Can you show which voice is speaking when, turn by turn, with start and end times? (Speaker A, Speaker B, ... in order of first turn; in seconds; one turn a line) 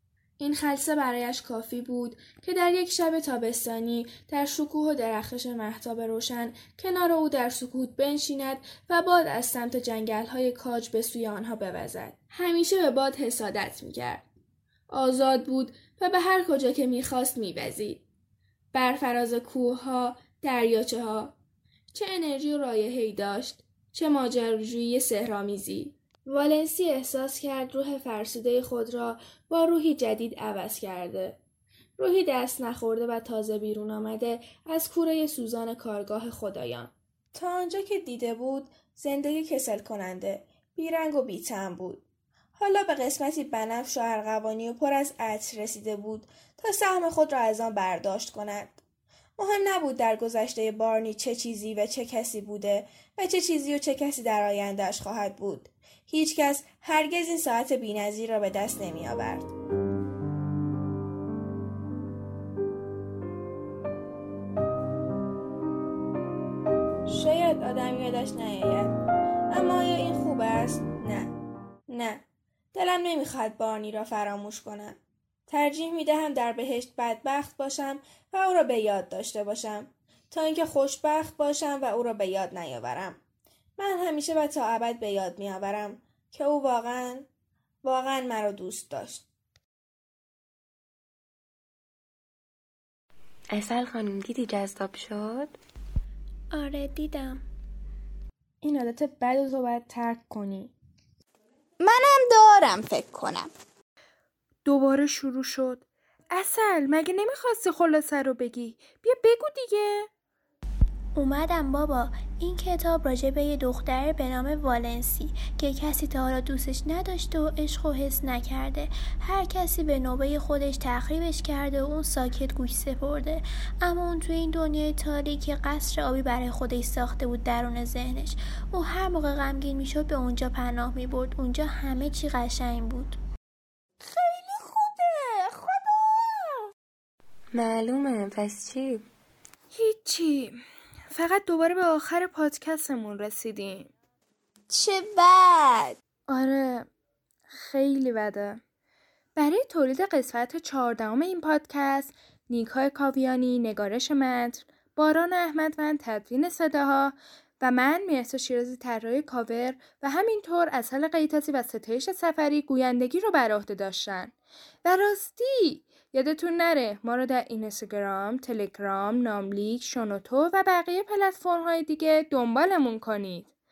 Speaker A: 0.4-14.2
Speaker A: 14.9-18.0
Speaker A: 18.7-21.4
Speaker A: 21.9-31.4
Speaker A: 32.0-42.0
Speaker A: 42.6-48.8
Speaker A: 49.4-59.5
Speaker A: 67.1-68.9
Speaker A: 69.5-71.3
Speaker A: 71.9-72.2
Speaker A: 72.7-83.2
Speaker A: 83.8-87.3
Speaker A: 87.8-89.2
Speaker B: 93.5-95.6
Speaker C: 96.5-97.4
Speaker A: 98.6-100.7
Speaker D: 101.8-103.5
Speaker E: 104.7-110.1
Speaker C: 111.2-133.2
Speaker D: 134.1-136.6
Speaker B: 137.5-139.1
Speaker E: 139.7-140.6
Speaker E: 141.1-143.9
Speaker D: 144.7-146.0
Speaker E: 146.3-146.9
Speaker E: 147.5-148.6
Speaker E: 149.4-164.3
Speaker E: 164.8-173.5